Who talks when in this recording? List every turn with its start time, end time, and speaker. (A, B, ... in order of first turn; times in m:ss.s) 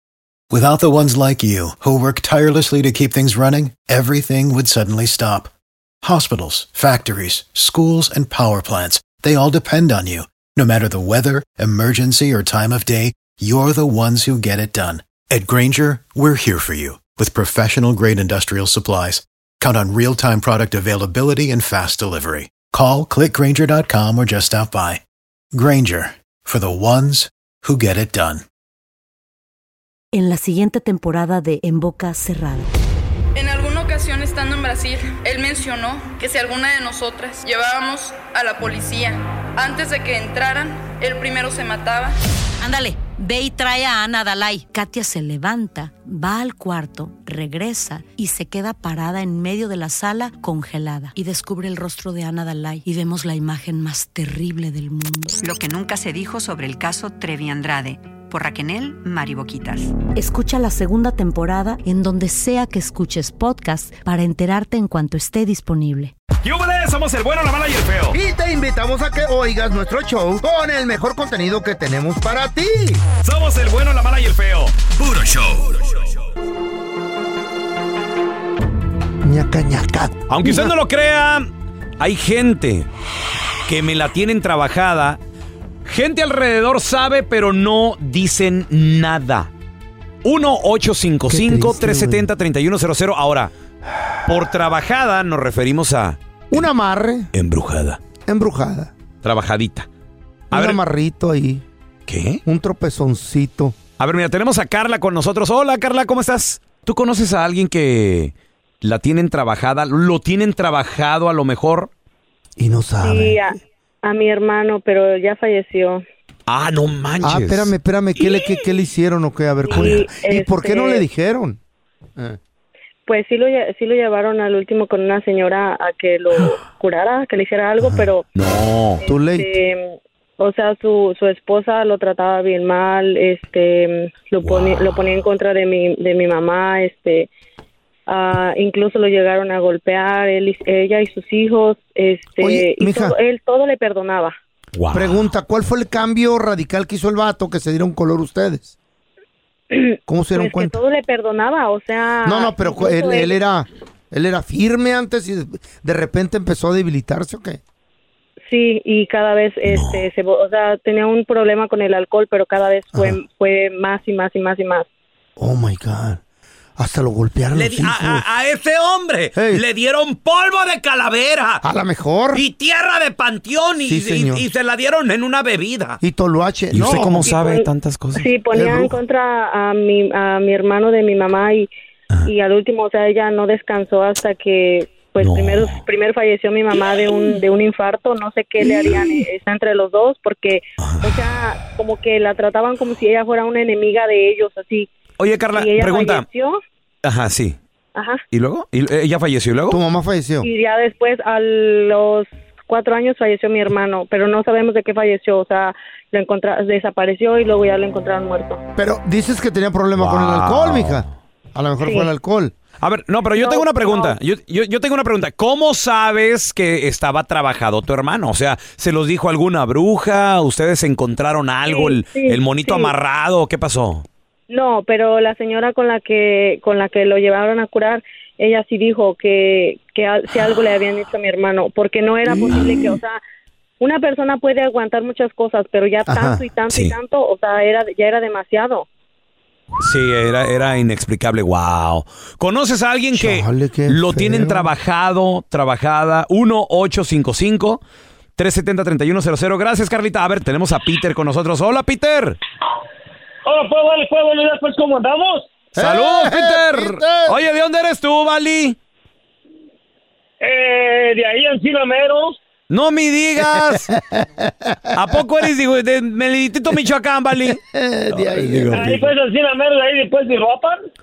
0:00.5-0:05.5 A
0:06.0-0:25.0 A
0:25.5-0:28.4 A
0:30.1-0:32.7 B
0:33.3-0:42.1 C
0:42.6-0:55.4 B
0:55.4-1:00.0 D
1:00.1-1:06.1 B
1:06.4-1:08.2 E
1:08.1-1:13.0 F
1:13.2-1:16.0 E
1:19.2-1:20.7 F
1:20.3-1:22.9 E
1:23.7-1:25.2 E
1:25.8-1:29.5 E
1:30.2-1:33.5 E
1:31.3-1:32.3 F
1:34.2-1:36.6 E
1:36.5-1:37.3 F
1:37.3-1:38.0 E
1:38.2-1:38.9 F
1:39.2-1:39.9 E
1:40.5-1:40.8 E
1:40.5-1:41.6 F
1:42.1-1:42.4 E
1:42.4-1:43.8 F
1:44.0-1:51.9 E
1:52.6-1:53.4 F
1:53.0-1:56.0 G
1:56.5-1:57.7 E
1:57.2-2:01.6 F
1:59.6-2:01.0 G
2:03.1-2:08.2 G
2:08.4-2:09.0 E
2:09.0-2:17.3 G
2:09.0-2:09.5 F
2:14.4-2:15.0 E
2:18.1-2:24.4 G
2:22.4-2:23.2 F
2:24.7-2:25.3 E
2:24.9-2:28.7 F
2:29.7-2:33.3 G
2:30.1-2:30.8 F
2:32.2-2:37.6 F
2:38.5-2:44.9 G
2:39.7-2:40.0 E
2:42.9-2:43.2 F
2:45.4-2:46.2 F
2:46.8-2:48.2 F
2:47.5-2:51.6 E
2:49.3-2:49.6 F
2:51.6-2:52.4 F
2:52.3-2:56.0 E
2:53.8-2:54.4 F
2:56.0-2:57.3 F
2:56.7-2:58.3 E
2:56.8-3:01.7 G
2:58.5-2:58.9 F
3:02.2-3:14.9 G
3:05.2-3:05.8 E
3:15.2-3:16.2 E
3:15.5-3:16.6 G
3:17.0-3:17.6 E
3:17.9-3:18.2 G
3:18.3-3:19.8 E
3:19.7-3:20.5 F
3:20.4-3:28.6 G
3:28.8-3:32.5 F
3:30.0-3:31.1 E
3:31.8-3:32.1 G
3:32.8-3:44.0 E
3:33.3-3:34.1 G
3:41.7-3:42.9 G
3:44.5-3:53.2 G
3:52.2-3:52.8 F
3:53.8-3:58.8 G
3:56.0-3:56.4 F
3:56.7-3:57.0 E
3:59.8-4:07.8 E
4:03.1-4:04.7 F
4:08.4-4:12.4 E
4:13.4-4:15.5 H
4:15.8-4:17.4 F
4:15.8-4:18.8 E
4:20.4-4:22.4 H
4:22.7-4:23.9 E
4:23.4-4:25.0 F
4:24.9-4:27.6 E
4:27.5-4:29.0 F
4:28.1-4:29.0 E
4:28.7-4:30.8 H